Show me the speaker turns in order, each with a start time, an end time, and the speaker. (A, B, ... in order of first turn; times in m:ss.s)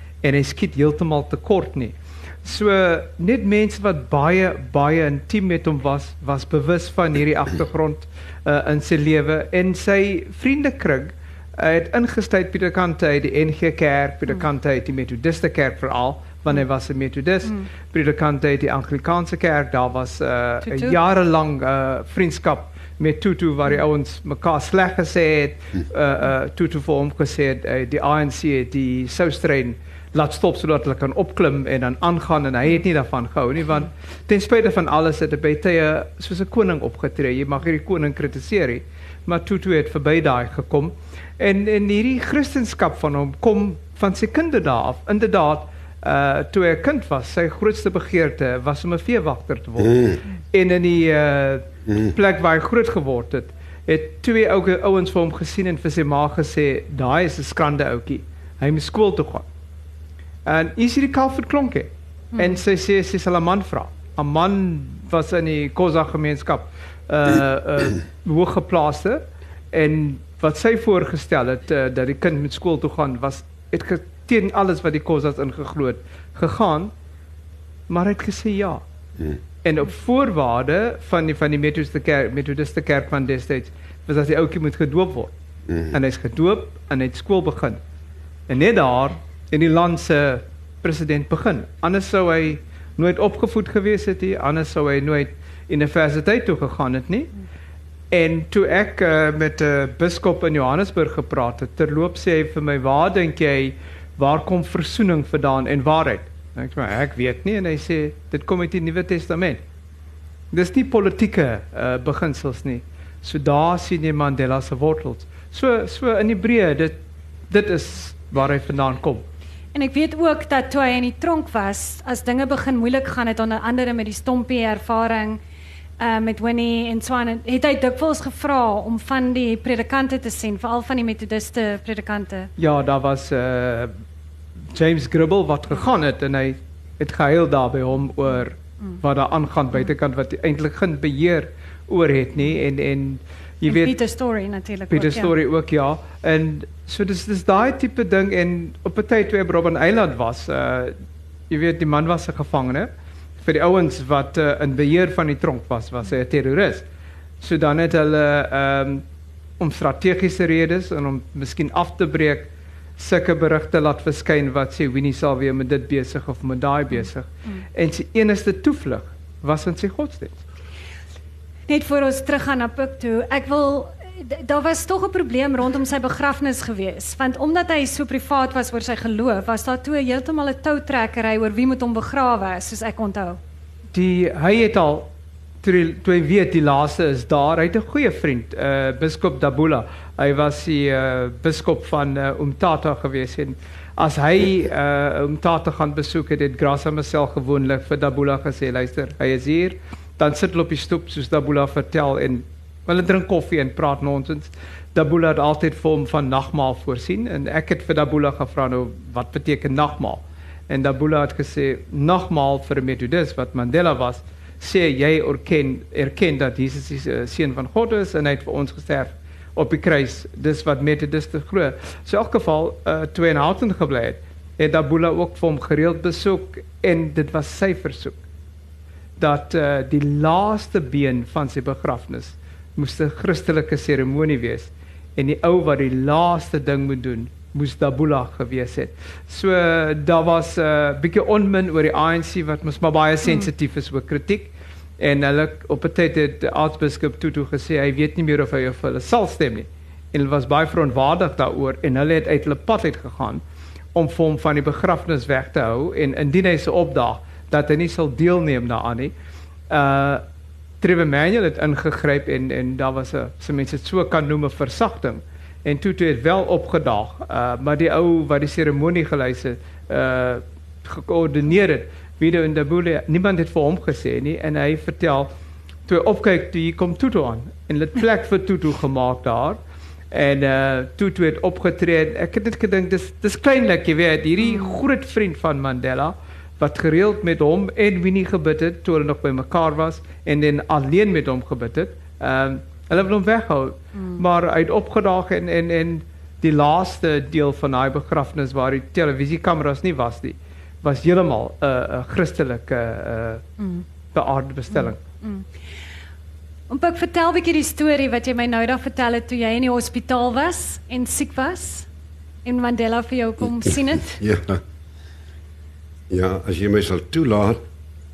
0:00.2-0:59.4 A
0:20.6-0:21.0 B
0:49.8-0:50.2 C
1:00.4-1:16.9 A
1:02.3-1:02.6 B
1:17.9-1:18.8 A
1:19.6-1:25.3 A
1:25.7-1:25.9 C
1:25.9-1:27.8 A
1:28.5-1:37.3 A
1:38.1-1:49.6 A
1:50.5-1:56.9 A
1:57.5-1:59.2 A
1:59.7-2:05.4 B
2:06.0-2:12.5 B
2:12.6-2:14.0 A
2:14.7-2:24.0 A
2:23.7-2:25.3 B
2:24.9-2:31.0 A
2:31.5-2:32.9 A
2:33.4-2:36.8 A
2:37.4-2:39.0 A
2:39.6-2:50.4 A
2:51.7-3:03.4 B
3:03.9-3:05.1 A
3:05.6-3:48.2 A
3:49.2-4:13.4 A
4:13.9-4:19.1 A
4:19.7-4:20.2 A
4:20.8-4:35.3 A
4:35.9-4:39.6 A
4:40.1-5:03.4 A
4:44.4-4:44.8 B
5:03.6-5:03.8 B
5:04.1-5:05.0 A
5:04.8-5:05.5 B
5:06.7-5:11.9 B
5:12.4-5:14.2 B
5:13.6-5:14.6 C
5:16.1-5:17.6 C